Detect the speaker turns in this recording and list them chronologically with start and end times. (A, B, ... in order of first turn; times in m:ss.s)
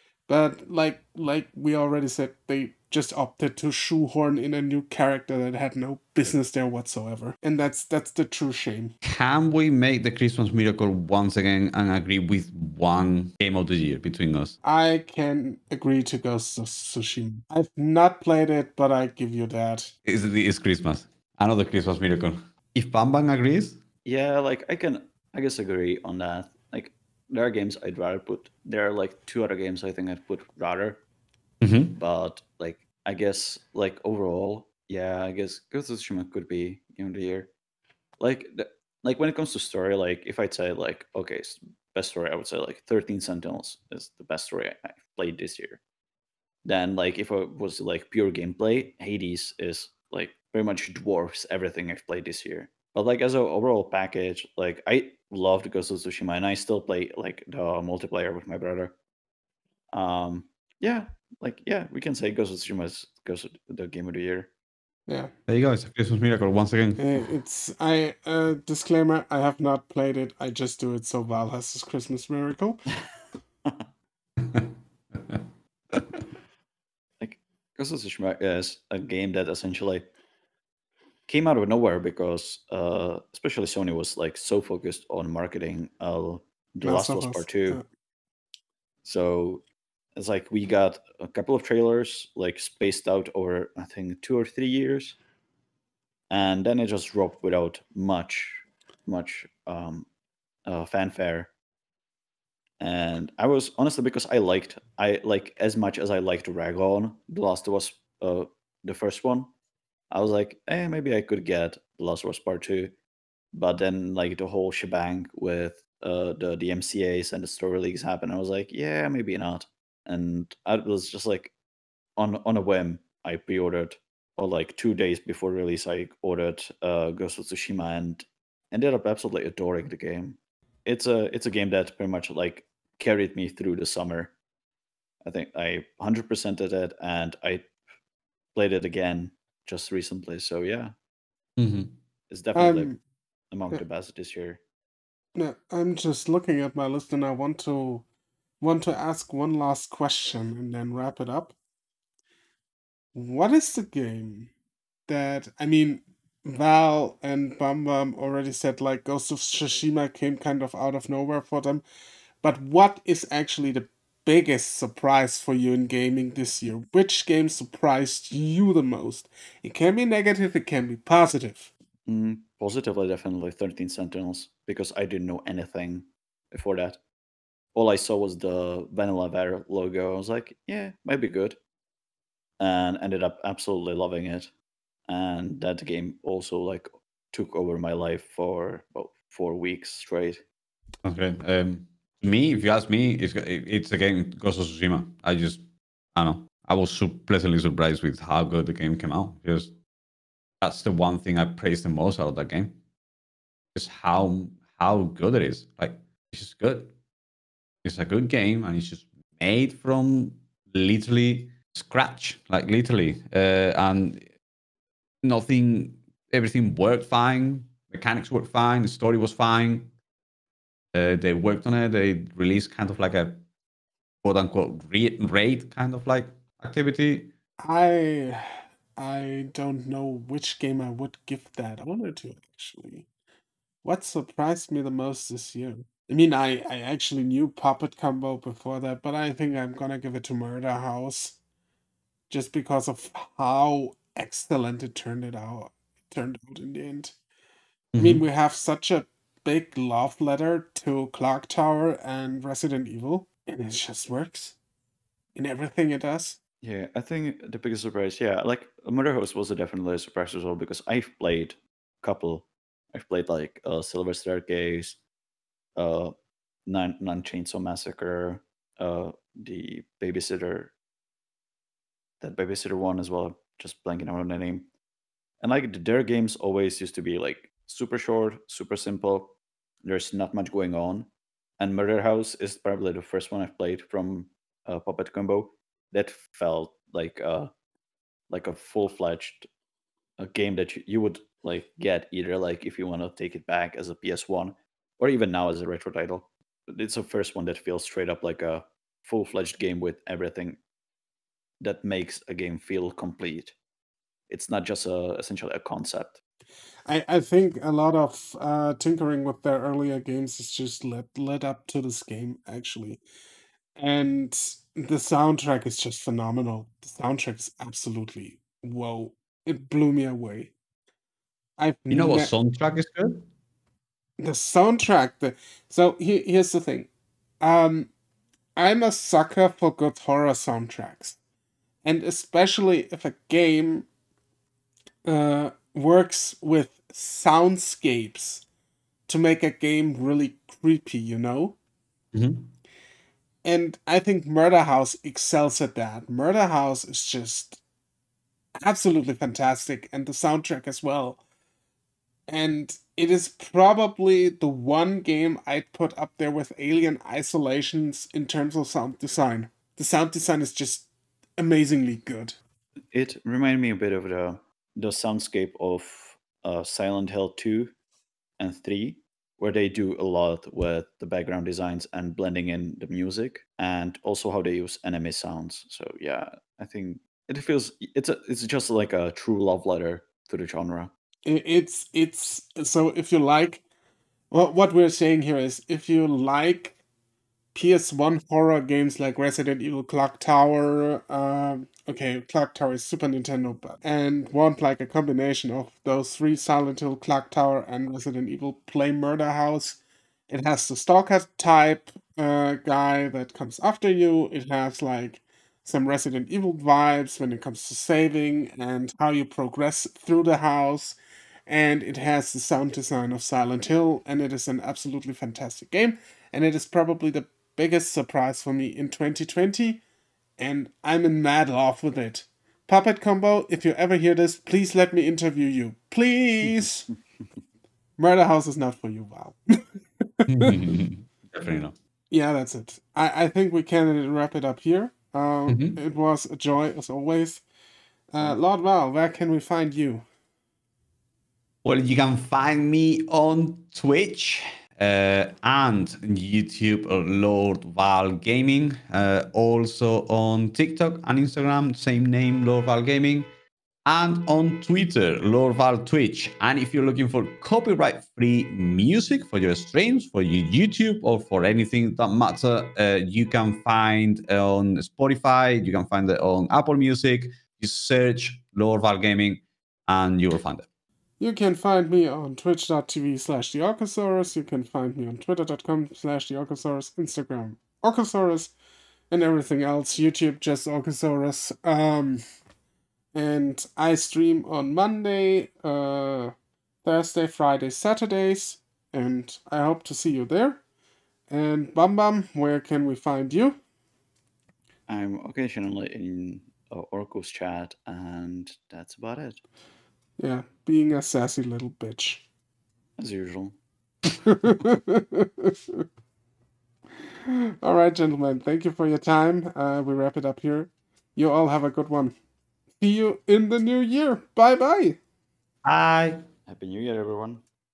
0:00.3-0:09.0 A
0:09.0-0:14.6 B
0:14.6-0:19.9 A
0:20.0-0:23.8 B
0:24.0-0:31.0 C
0:31.6-0:32.0 B
0:32.0-0:37.5 C
0:38.2-0:45.8 C
0:46.6-0:59.0 C
0:59.9-1:04.5 C
1:05.1-1:05.3 A
1:05.5-1:07.1 B
1:07.0-1:12.8 A
1:14.4-1:16.2 B
1:17.2-1:20.1 C
1:21.3-1:27.8 C
1:26.8-1:27.8 A
1:29.0-1:29.6 C
1:30.2-1:35.2 C
1:36.3-1:40.1 C
1:40.7-1:41.5 C
1:42.8-1:49.5 C
1:50.1-1:52.9 C
1:53.5-2:01.5 C
2:02.2-2:14.3 C
2:15.2-2:17.7 C
2:18.6-2:21.0 C
2:21.6-2:21.9 B
2:22.3-2:23.0 C
2:22.6-2:23.0 A
2:23.5-2:24.6 C
2:25.4-2:28.0 A
2:28.6-2:31.5 A
2:33.1-2:34.5 A
2:35.1-2:41.8 A
2:42.4-2:51.7 A
2:52.1-2:57.0 C
2:57.8-3:01.6 C
3:02.6-3:04.5 C
3:05.1-3:10.4 C
3:11.0-3:15.6 B
3:16.2-3:19.8 B
3:20.6-3:22.8 B
3:23.8-3:26.9 B
3:27.8-3:34.3 B
3:35.2-3:39.9 B
3:40.9-3:43.4 B
3:44.2-3:47.3 B
3:47.6-3:53.1 A
3:53.8-4:01.4 A
4:02.3-4:07.1 A
4:07.9-4:08.2 B
4:08.0-4:14.6 A
4:15.4-4:16.4 A
4:16.6-4:25.0 C
4:25.8-4:26.1 C
4:26.7-4:30.7 C
4:32.2-4:34.7 C
4:35.4-4:47.5 C
4:48.3-4:49.5 C
4:50.2-5:00.6 C
5:01.6-5:03.6 C
5:04.3-5:06.2 C
5:06.9-5:13.0 A
5:13.8-5:20.5 A
5:21.6-5:22.3 A
5:21.9-5:23.2 B
5:24.2-5:26.9 A
5:27.4-5:27.9 A
5:28.6-5:31.2 A
5:31.8-5:33.9 A
5:35.0-5:38.4 A
5:39.1-5:41.6 A
5:42.1-5:42.5 B
5:43.4-5:47.6 A
5:48.6-5:51.2 A
5:52.3-6:02.4 A
6:02.9-6:07.7 C
6:08.4-6:20.9 C
6:21.2-6:23.6 A
6:24.3-6:26.8 A
6:27.5-6:59.8 A
7:00.4-7:06.9 A
7:08.0-7:09.6 A
7:10.2-7:10.8 A
7:10.3-7:11.8 B
7:12.1-7:17.4 A
7:15.5-7:15.8 B
7:18.1-7:20.0 A
7:21.6-7:33.3 B
7:33.9-7:50.7 B
7:51.2-7:58.5 A
7:59.1-8:02.2 A
8:03.1-8:10.6 A
8:11.3-8:13.6 A
8:14.9-8:19.4 C
8:20.2-8:22.2 A
8:23.0-8:23.6 C
8:24.1-8:25.8 A
8:27.3-8:32.2 A
8:32.8-8:35.0 A
8:35.6-8:36.2 B
8:36.5-8:37.4 C